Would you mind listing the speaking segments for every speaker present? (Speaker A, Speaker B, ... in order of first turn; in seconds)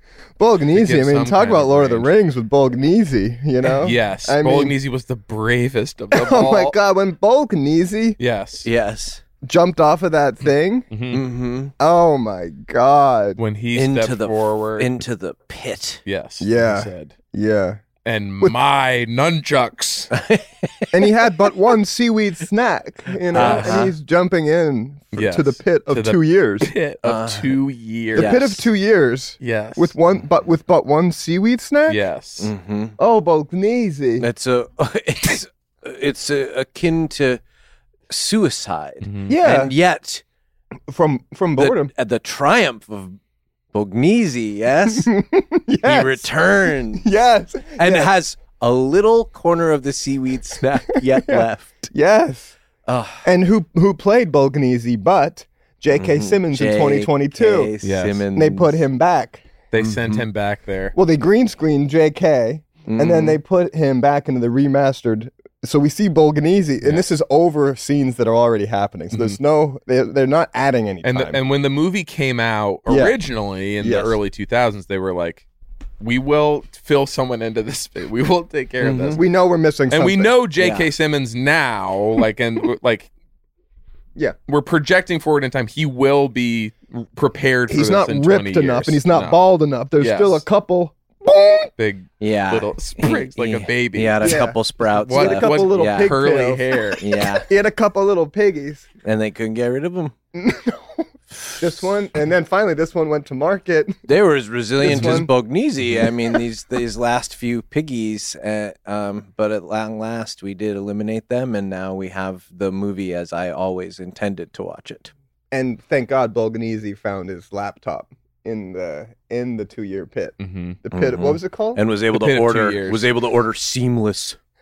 Speaker A: 0.4-4.8, 6.1-8.2, 9.4-10.9, 11.8-13.4, 16.4-17.8, 20.9-26.7, 28.1-32.0, 33.0-34.3, 39.3-39.7, 40.9-41.9, 44.9-48.1, 51.1-52.5, 53.2-57.7, 58.3-59.5, 61.0-71.4, 72.9-73.2, 73.8-74.2, 79.1-80.3, 87.7-91.7, 94.2-96.8, 97.5-98.9, 100.3-101.1, 101.6-104.0, 104.8-105.3, 106.0-106.4, 115.5-121.8
Speaker B: 0.7-2.1, 3.8-6.8, 8.2-8.7, 10.9-11.2, 13.4-14.9, 16.1-17.1, 18.1-20.1, 23.3-23.9, 25.1-28.6, 29.4-29.9, 31.9-32.5, 39.0-39.4, 57.8-58.2, 59.7-61.0, 69.1-69.4, 71.0-75.5, 76.0-79.2, 79.9-83.1, 84.5-89.4, 90.0-90.4, 91.8-97.0, 120.4-120.8, 122.1-123.1
Speaker C: 8.6-9.2, 11.1-11.7, 13.8-16.0, 20.1-21.1, 23.3-23.9, 27.0-27.6, 28.1-28.6, 32.4-33.0, 34.2-37.4, 38.1-40.2, 41.6-43.2, 43.7-45.1, 45.8-47.1, 47.8-51.9, 52.9-53.3, 55.9-58.8, 59.8-60.2, 62.9-63.4, 78.8-79.2, 80.6-80.9, 92.2-96.2, 97.0-97.5, 99.0-100.1, 104.1-115.1, 120.9-124.4